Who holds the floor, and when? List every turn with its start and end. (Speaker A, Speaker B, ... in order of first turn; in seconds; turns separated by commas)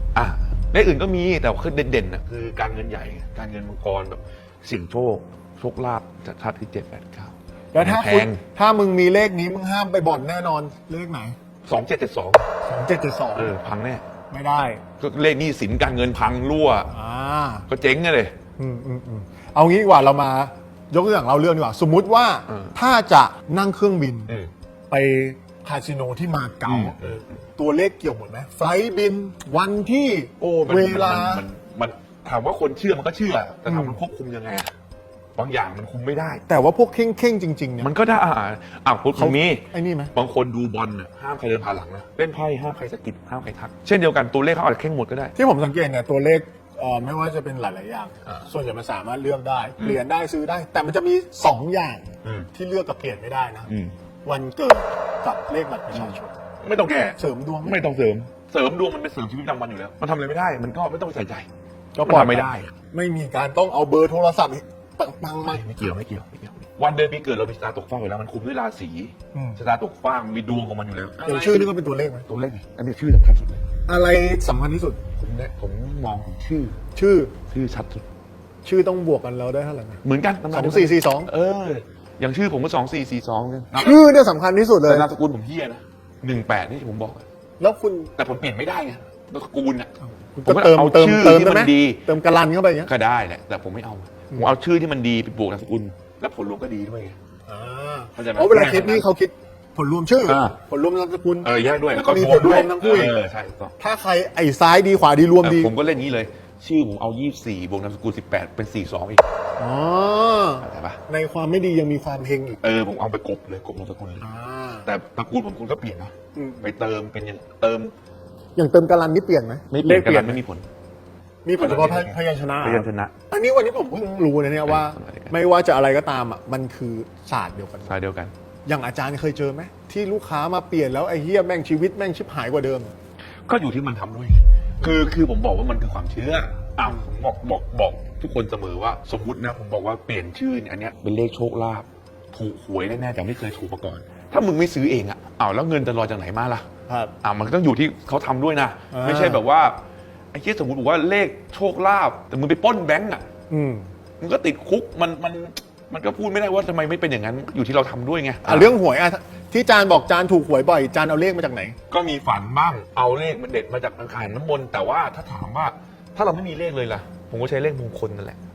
Speaker A: 0.1-8.4, Speaker B: 7.7-11.4, Speaker A: 11.7-12.5, Speaker B: 12.6-13.6, Speaker A: 13.3-14.0, Speaker B: 14.3-14.8, Speaker A: 15.0-16.9, Speaker B: 16.9-17.7, Speaker A: 17.7-18.3, Speaker B: 18.6-24.3, Speaker A: 22.5-22.7, Speaker B: 24.9-27.0, Speaker A: 26.6-27.3, Speaker B: 27.6-31.5, Speaker A: 30.4-34.7, Speaker B: 33.7-34.0, Speaker A: 35.4-36.4, Speaker B: 36.5-37.9, Speaker A: 37.8-45.3, Speaker B: 39.1-40.1, Speaker B: 45.4-53.7, Speaker A: 52.2-52.5, Speaker A: 53.7-53.9, Speaker B: 54.2-56.3, Speaker A: 55.9-61.5, Speaker B: 57.2-57.8, Speaker B: 61.9-65.7, Speaker A: 62.0-62.7, Speaker A: 65.4-71.7, Speaker B: 69.3-69.6, Speaker B: 71.2-72.3, Speaker A: 72.3-73.6, Speaker B: 73.9-75.0, Speaker A: 75.2-76.8, Speaker B: 77.0-77.3, Speaker A: 77.5-78.0, Speaker B: 78.6-81.3, Speaker A: 80.0-84.0, Speaker B: 83.7-85.1, Speaker A: 84.9-87.2, Speaker B: 87.6-88.1, Speaker A: 88.2-89.9, Speaker B: 90.0-92.9, Speaker A: 90.4-92.0, Speaker A: 92.9-97.2, Speaker B: 97.5-103.2, Speaker A: 98.2-99.0, Speaker A: 100.3-100.6, Speaker A: 101.4-103.7, Speaker B: 103.8-105.7, Speaker A: 105.4-109.2, Speaker B: 109.6-112.6, Speaker A: 110.6-111.0, Speaker A: 112.6-114.3, Speaker B: 114.2-114.9, Speaker A: 114.9-117.9, Speaker B: 116.3-116.7, Speaker B: 118.6-120.4, Speaker A: 119.7-120.7, Speaker B: 121.5-128.0, Speaker A: 121.6-123.1, Speaker A: 124.7-125.3, Speaker A: 127.9-128.3, Speaker B: 128.7-132.9, Speaker A: 133.5-146.7, Speaker B: 146.9-147.1, Speaker A: 147.2-149.8, Speaker B: 148.9-149.4, Speaker A: 150.3-153.2, Speaker B: 153.5-153.9, Speaker A: 154.2-158.7, Speaker B: 158.4-161.8, Speaker A: 161.9-168.4